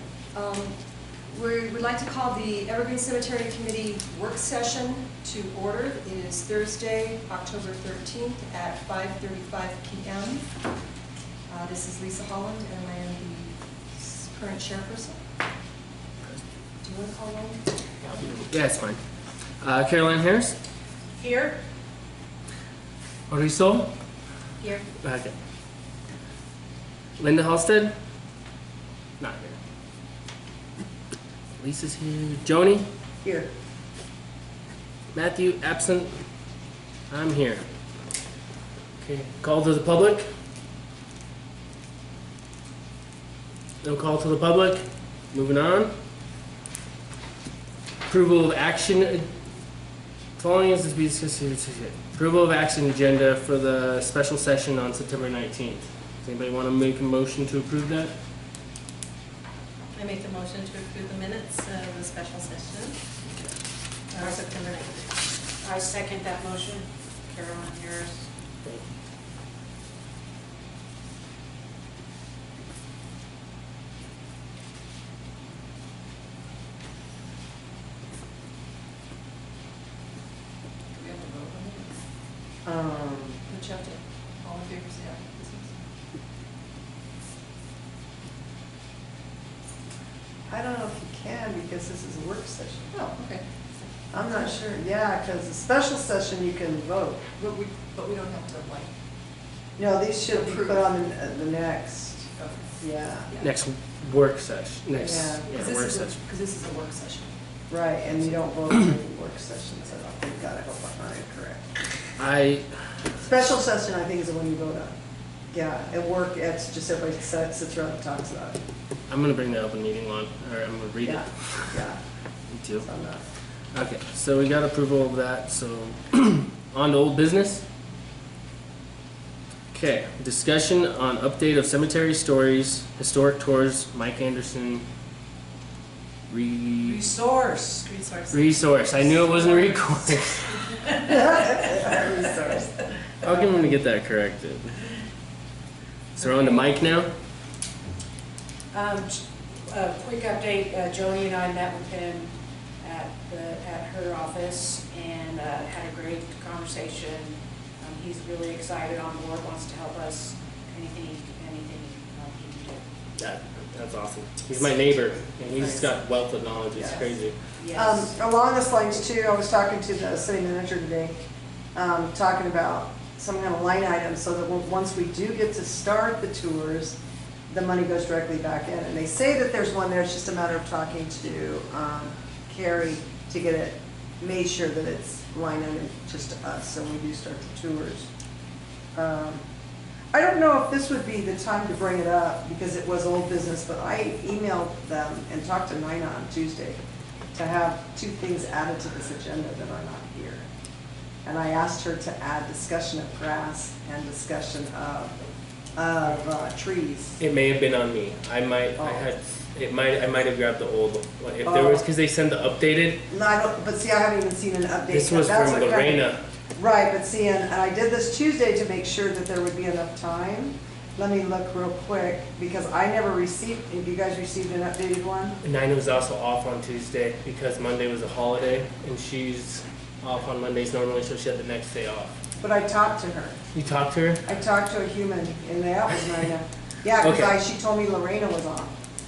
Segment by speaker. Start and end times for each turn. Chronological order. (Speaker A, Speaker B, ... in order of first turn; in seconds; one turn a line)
Speaker A: 0.3-0.8
Speaker A: 1.3-10.5
Speaker A: 11.5-15.2
Speaker A: 16.8-17.6
Speaker B: 18.0-19.0
Speaker B: 19.6-20.6
Speaker C: 21.2-21.6
Speaker B: 23.3-23.9
Speaker B: 25.0-25.3
Speaker B: 27.2-27.9
Speaker B: 29.2-29.6
Speaker B: 31.6-32.9
Speaker D: 33.2-33.5
Speaker B: 35.1-36.2
Speaker B: 37.1-37.6
Speaker B: 39.0-40.3
Speaker B: 43.8-45.9
Speaker B: 48.1-49.3
Speaker B: 50.4-58.1
Speaker E: 59.9-63.0
Speaker E: 64.2-65.0
Speaker C: 65.6-68.3
Speaker A: 80.9-82.0
Speaker D: 82.6-83.4
Speaker A: 83.5-85.8
Speaker D: 90.5-92.9
Speaker A: 92.9-94.5
Speaker D: 94.1-97.2
Speaker A: 97.4-98.9
Speaker D: 99.8-103.3
Speaker A: 100.2-100.9
Speaker A: 102.4-102.8
Speaker B: 103.4-106.2
Speaker D: 105.0-105.5
Speaker A: 105.1-107.3
Speaker D: 107.7-111.9
Speaker B: 112.2-112.9
Speaker D: 113.2-115.0
Speaker D: 115.5-118.6
Speaker B: 119.1-121.8
Speaker D: 121.0-122.0
Speaker B: 122.5-122.9
Speaker D: 122.8-123.2
Speaker B: 123.7-127.6
Speaker B: 129.7-134.8
Speaker B: 136.3-137.0
Speaker C: 136.8-138.0
Speaker B: 138.3-140.7
Speaker C: 140.8-142.2
Speaker D: 141.1-142.7
Speaker B: 143.2-144.8
Speaker B: 146.1-147.1
Speaker C: 148.7-162.8
Speaker B: 163.2-167.4
Speaker D: 165.6-165.8
Speaker C: 167.6-168.1
Speaker D: 167.7-171.2
Speaker D: 171.7-177.0
Speaker D: 177.5-188.1
Speaker D: 188.9-189.4
Speaker D: 190.1-196.8
Speaker D: 197.3-200.5
Speaker D: 201.2-205.1
Speaker D: 205.7-207.2
Speaker B: 207.2-213.0
Speaker D: 208.8-209.1
Speaker D: 211.4-211.8
Speaker D: 213.1-225.4
Speaker B: 214.9-216.2
Speaker B: 225.4-232.2
Speaker D: 232.4-233.4
Speaker B: 233.5-234.3
Speaker D: 234.2-238.7
Speaker B: 237.0-237.4